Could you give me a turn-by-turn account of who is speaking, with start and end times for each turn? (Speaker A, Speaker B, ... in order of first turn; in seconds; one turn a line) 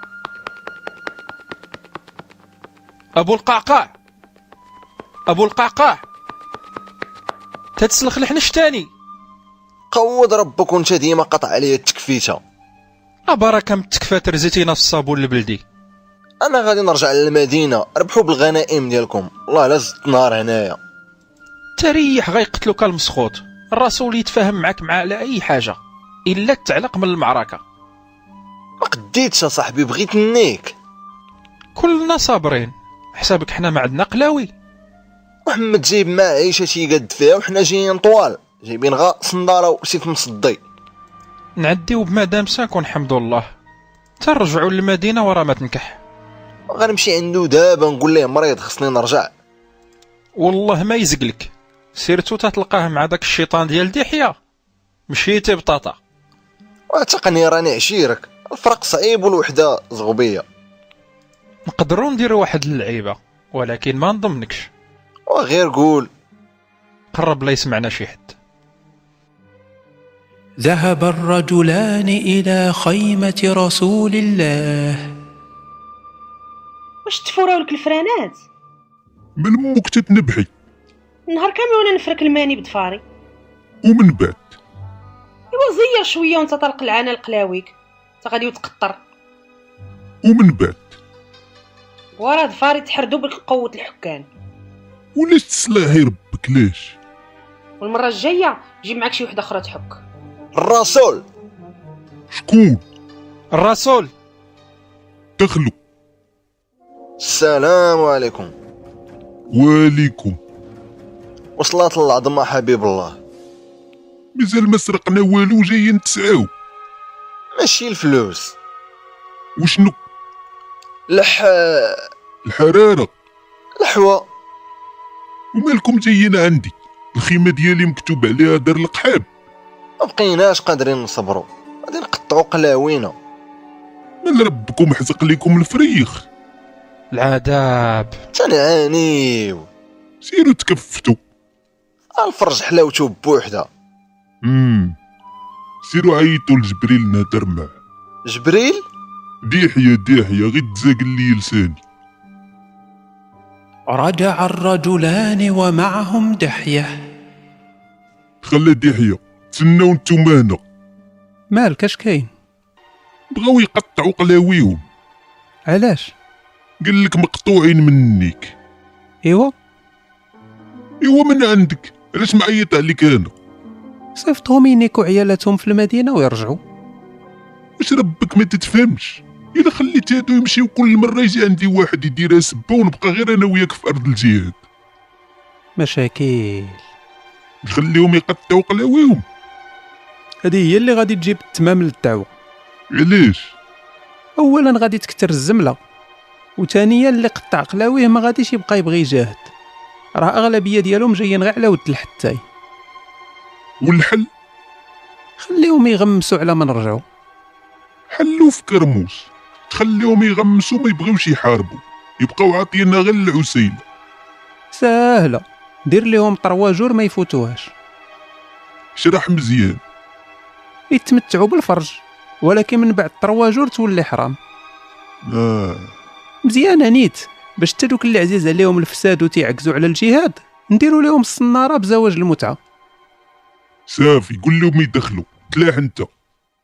Speaker A: 3.1-3.9
Speaker A: 5.3-6.0
Speaker A: 7.8-8.9
Speaker B: 9.9-12.4
Speaker A: 13.3-15.6
Speaker B: 16.4-20.8
Speaker A: 21.8-27.6
Speaker B: 28.8-30.7
Speaker A: 31.8-34.5
Speaker B: 35.5-40.6
Speaker A: 41.6-43.5
Speaker A: 44.2-46.0
Speaker B: 46.7-49.3
Speaker A: 50.4-54.4
Speaker A: 55.1-56.0
Speaker B: 56.9-60.4
Speaker A: 61.6-64.7
Speaker B: 65.3-66.1
Speaker A: 67.1-68.3
Speaker C: 70.6-75.1
Speaker D: 77.0-78.4
Speaker E: 79.4-80.5
Speaker D: 81.3-83.0
Speaker E: 83.8-84.5
Speaker D: 85.5-89.0
Speaker E: 90.2-90.9
Speaker D: 92.2-94.3
Speaker E: 95.1-97.0
Speaker D: 97.8-100.0
Speaker B: 100.5-101.2
Speaker E: 102.3-102.8
Speaker A: 103.5-104.1
Speaker E: 105.4-105.7
Speaker B: 107.2-108.5
Speaker E: 109.5-110.4
Speaker B: 111.6-113.2
Speaker E: 114.3-116.5
Speaker B: 117.5-118.5
Speaker E: 119.6-120.0
Speaker B: 121.1-122.0
Speaker E: 122.4-123.1
Speaker B: 123.8-124.2
Speaker E: 125.5-129.2
Speaker B: 130.0-133.1
Speaker E: 134.2-136.2
Speaker A: 137.1-138.1
Speaker B: 138.3-139.7
Speaker E: 140.2-141.2
Speaker B: 142.2-143.7
Speaker E: 144.4-144.9
Speaker E: 145.8-147.7
Speaker B: 148.3-148.8
Speaker E: 149.5-151.8
Speaker C: 153.9-156.9
Speaker E: 158.4-160.6
Speaker C: 161.5-162.3
Speaker E: 163.3-164.8
Speaker C: 165.7-166.1
Speaker E: 166.8-168.5
Speaker C: 169.2-169.5
Speaker E: 171.0-173.3
Speaker C: 174.2-176.6
Speaker E: 177.8-184.6
Speaker C: 185.8-186.8
Speaker E: 187.6-189.2
Speaker C: 190.4-192.3
Speaker E: 192.9-193.5
Speaker C: 194.4-195.8
Speaker C: 196.6-199.5
Speaker C: 200.2-202.4
Speaker E: 203.8-204.3
Speaker C: 205.4-207.0
Speaker E: 208.1-213.8
Speaker C: 214.7-217.7
Speaker E: 218.9-219.8
Speaker C: 220.9-224.4
Speaker E: 225.2-225.9
Speaker C: 226.4-232.6
Speaker E: 233.9-236.1